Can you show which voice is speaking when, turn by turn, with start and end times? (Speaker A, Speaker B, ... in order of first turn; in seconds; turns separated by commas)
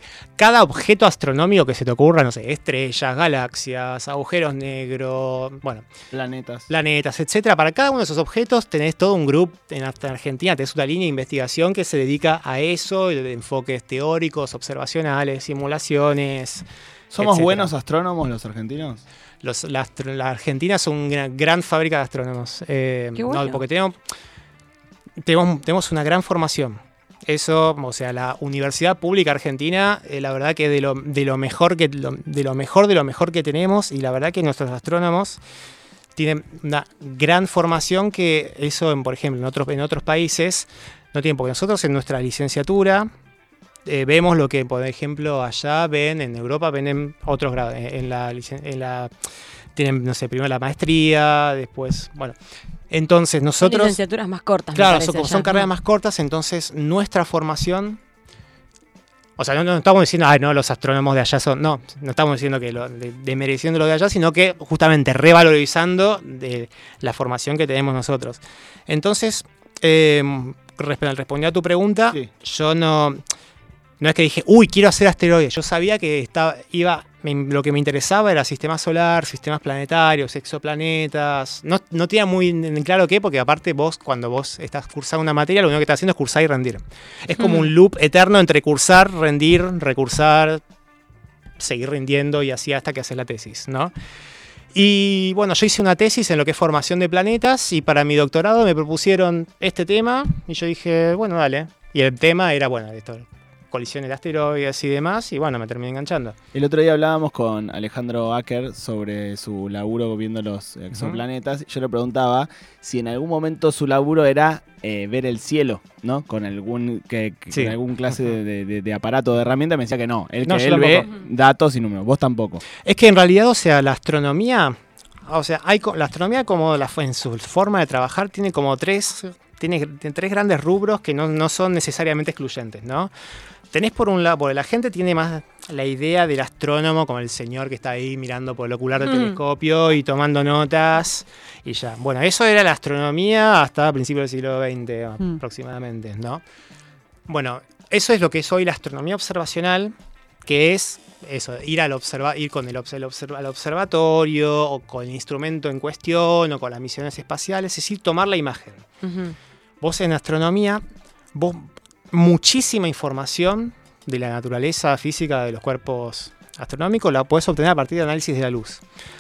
Speaker A: 0.4-5.8, Speaker B: 6.1-6.7, Speaker A: 6.7-16.6, Speaker B: 17.1-19.0, Speaker A: 17.2-17.7, Speaker A: 19.4-24.0, Speaker C: 23.2-23.6, Speaker A: 25.2-35.4, Speaker A: 36.1-43.1, Speaker A: 43.9-49.1, Speaker A: 49.8-52.4, Speaker A: 52.9-54.0, Speaker C: 53.6-55.7, Speaker A: 54.8-58.0, Speaker A: 59.4-73.2, Speaker A: 74.0-90.6, Speaker C: 87.4-87.7, Speaker A: 91.6-93.9, Speaker A: 94.7-106.4, Speaker B: 106.5-122.6, Speaker A: 111.0-111.2, Speaker A: 120.5-121.1, Speaker A: 122.8-133.1, Speaker A: 133.7-146.4, Speaker C: 139.1-139.4, Speaker A: 147.3-149.9, Speaker A: 150.4-158.9, Speaker C: 159.0-159.3, Speaker A: 159.8-160.8, Speaker A: 161.3-168.8